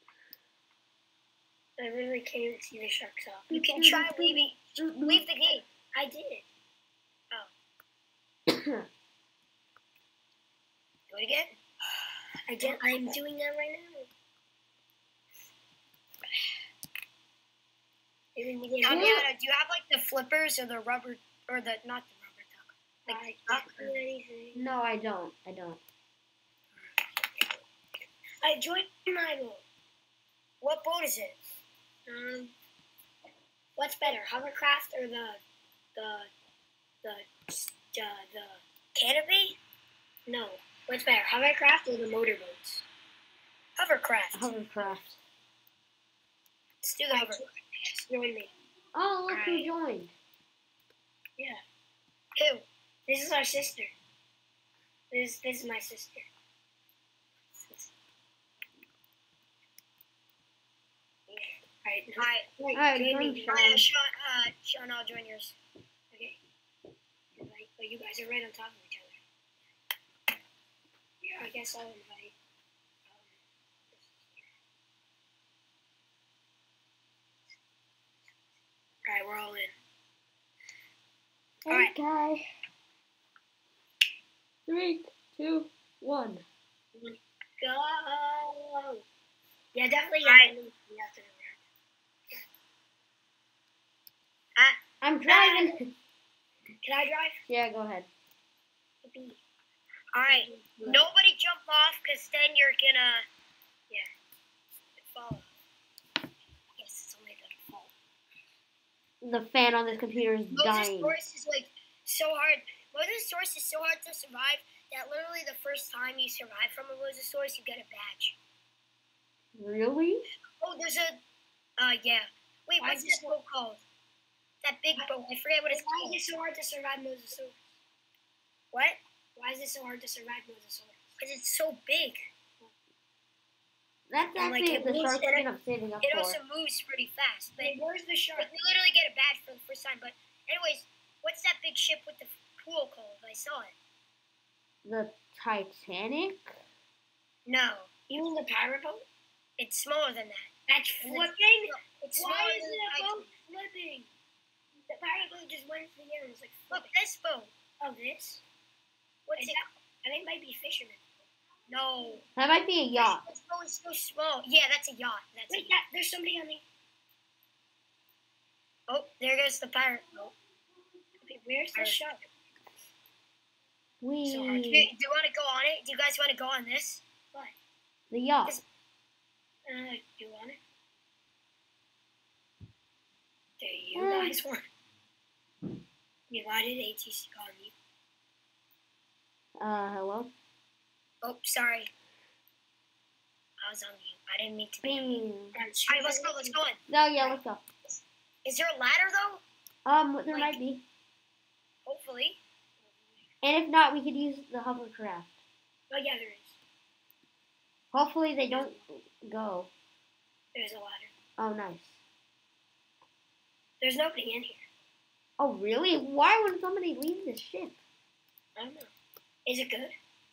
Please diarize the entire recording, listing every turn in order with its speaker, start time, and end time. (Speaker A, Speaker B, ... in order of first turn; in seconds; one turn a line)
Speaker A: 1.8-4.0
Speaker B: 3.5-5.3
Speaker C: 3.8-5.7
Speaker A: 5.9-6.5
Speaker B: 8.5-8.9
Speaker C: 11.1-11.6
Speaker A: 12.5-14.1
Speaker A: 18.4-19.3
Speaker C: 18.8-23.9
Speaker B: 18.9-19.3
Speaker A: 23.1-24.6
Speaker B: 24.5-25.8
Speaker A: 28.4-29.6
Speaker C: 30.6-31.4
Speaker A: 32.1-32.5
Speaker A: 33.8-35.4
Speaker A: 36.0-36.3
Speaker A: 37.0-38.6
Speaker C: 39.0-39.6
Speaker A: 40.3-42.9
Speaker C: 43.8-44.5
Speaker B: 44.3-45.2
Speaker C: 46.8-48.0
Speaker A: 47.1-47.5
Speaker A: 48.0-48.5
Speaker B: 48.9-50.1
Speaker A: 49.3-49.7
Speaker C: 52.4-52.7
Speaker A: 53.1-53.9
Speaker A: 55.1-56.3
Speaker C: 57.6-57.9
Speaker A: 61.8-63.8
Speaker C: 62.2-62.5
Speaker B: 62.7-63.9
Speaker C: 63.5-65.5
Speaker A: 66.1-66.4
Speaker A: 67.4-69.2
Speaker A: 71.2-72.3
Speaker A: 73.1-73.3
Speaker A: 73.9-74.4
Speaker A: 79.1-79.8
Speaker B: 81.7-82.4
Speaker B: 84.7-86.4
Speaker A: 87.0-89.0
Speaker A: 89.8-91.6
Speaker C: 90.2-90.5
Speaker B: 95.0-95.9
Speaker A: 95.3-95.7
Speaker A: 96.8-97.4
Speaker B: 97.5-98.1
Speaker A: 99.0-99.4
Speaker C: 100.1-103.3
Speaker A: 100.3-101.0
Speaker C: 105.0-105.5
Speaker C: 106.8-107.5
Speaker A: 107.3-107.9
Speaker B: 109.2-111.2
Speaker C: 110.5-118.4
Speaker B: 119.6-120.3
Speaker C: 120.6-121.2
Speaker C: 121.8-123.8
Speaker A: 122.8-123.4
Speaker C: 124.6-126.2
Speaker A: 125.7-127.6
Speaker C: 128.7-129.0
Speaker A: 129.4-131.1
Speaker C: 131.2-132.3
Speaker B: 134.1-136.4
Speaker C: 134.4-135.5
Speaker A: 134.7-135.2
Speaker C: 136.0-137.8
Speaker A: 137.6-138.5
Speaker C: 138.4-143.7
Speaker B: 144.8-146.4
Speaker C: 147.5-147.9
Speaker A: 148.1-149.1
Speaker C: 149.6-150.5
Speaker A: 150.7-154.1
Speaker C: 151.0-153.3
Speaker A: 154.9-156.9
Speaker C: 156.7-157.5
Speaker A: 157.8-158.4
Speaker C: 159.3-159.7
Speaker A: 159.4-161.0
Speaker C: 161.7-162.2
Speaker B: 162.4-163.2
Speaker C: 163.0-165.8
Speaker A: 165.5-166.6
Speaker C: 168.9-170.3
Speaker A: 171.2-172.2
Speaker C: 171.8-172.2
Speaker B: 174.0-174.9
Speaker A: 174.2-174.8
Speaker C: 174.7-177.0
Speaker B: 178.1-178.6
Speaker A: 179.7-180.6
Speaker A: 183.6-184.7
Speaker B: 183.9-184.4
Speaker A: 186.3-187.7
Speaker B: 189.6-190.3
Speaker C: 191.2-191.9
Speaker C: 193.6-195.3
Speaker B: 194.8-195.6
Speaker A: 195.5-196.6
Speaker C: 195.9-196.8
Speaker B: 196.9-197.6
Speaker C: 198.4-199.4
Speaker B: 199.8-200.8
Speaker C: 200.3-200.6
Speaker C: 201.8-202.4
Speaker B: 203.4-205.3
Speaker A: 205.9-206.6
Speaker B: 207.9-209.7
Speaker A: 210.6-211.1
Speaker B: 211.4-212.0
Speaker A: 213.8-214.6
Speaker B: 215.4-217.8
Speaker A: 218.6-218.9
Speaker A: 219.5-219.9